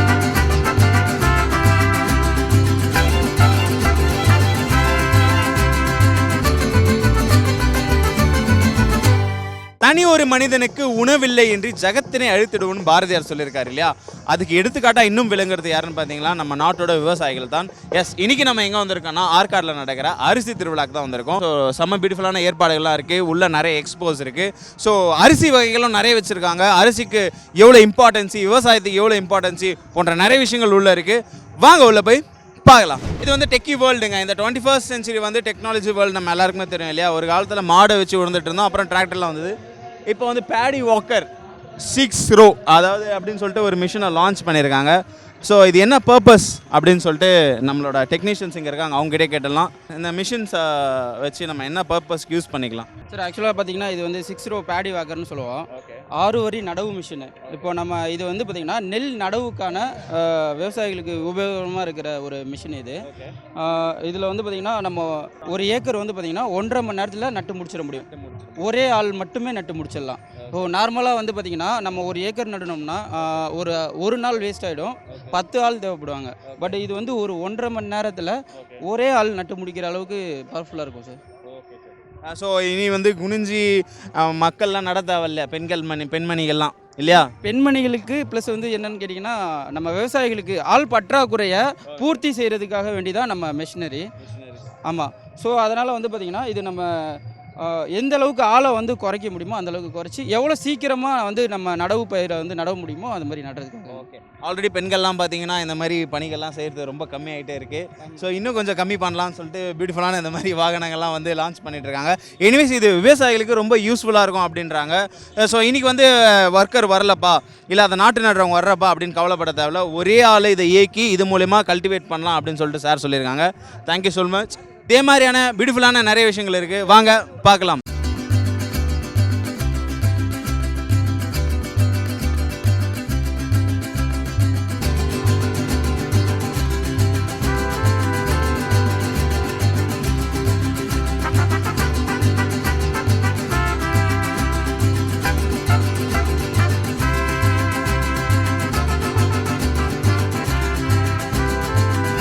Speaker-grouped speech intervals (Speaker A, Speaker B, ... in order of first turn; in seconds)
Speaker A: 9.8-39.5, 40.1-52.9, 55.7-56.0, 63.0-63.3, 78.5-78.8, 82.2-87.3, 91.9-92.2, 94.2-94.7, 103.9-127.8
Speaker B: 53.1-63.0, 63.6-81.2, 87.4-94.1, 94.9-104.0